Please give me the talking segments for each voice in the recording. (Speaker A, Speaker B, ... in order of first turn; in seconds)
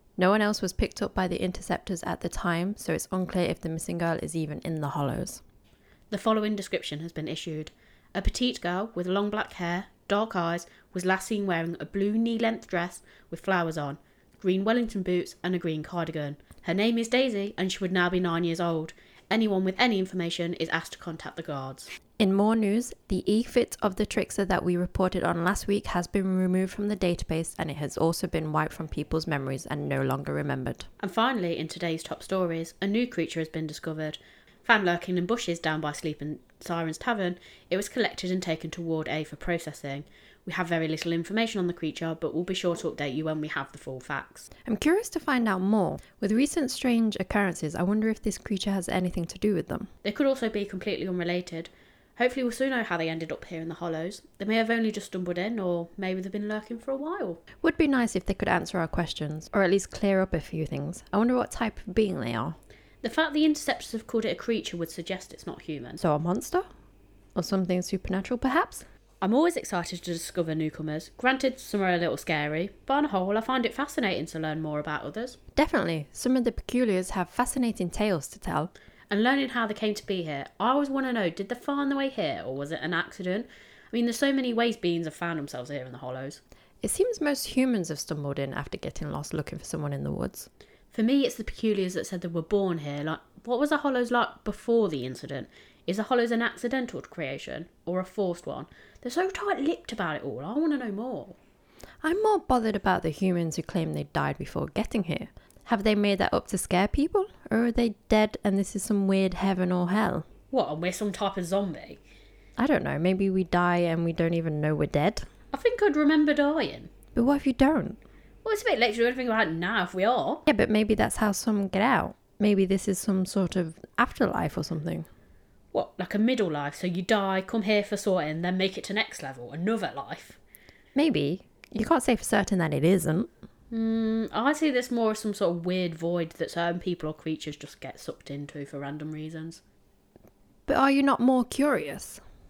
Speaker A: 0.2-5.4, 22.2-30.9, 44.7-49.9, 57.6-62.6, 66.0-66.6, 67.4-68.9, 75.5-78.7, 86.8-90.5, 102.0-110.3, 112.6-115.2, 117.1-118.0, 120.5-125.1, 130.9-133.3, 140.7-142.2
Speaker B: 6.1-21.9, 31.0-44.5, 50.0-57.4, 63.0-66.0, 69.2-75.4, 79.1-86.4, 90.9-101.4, 110.5-112.0, 115.5-116.9, 118.4-120.4, 125.7-130.4, 133.7-139.6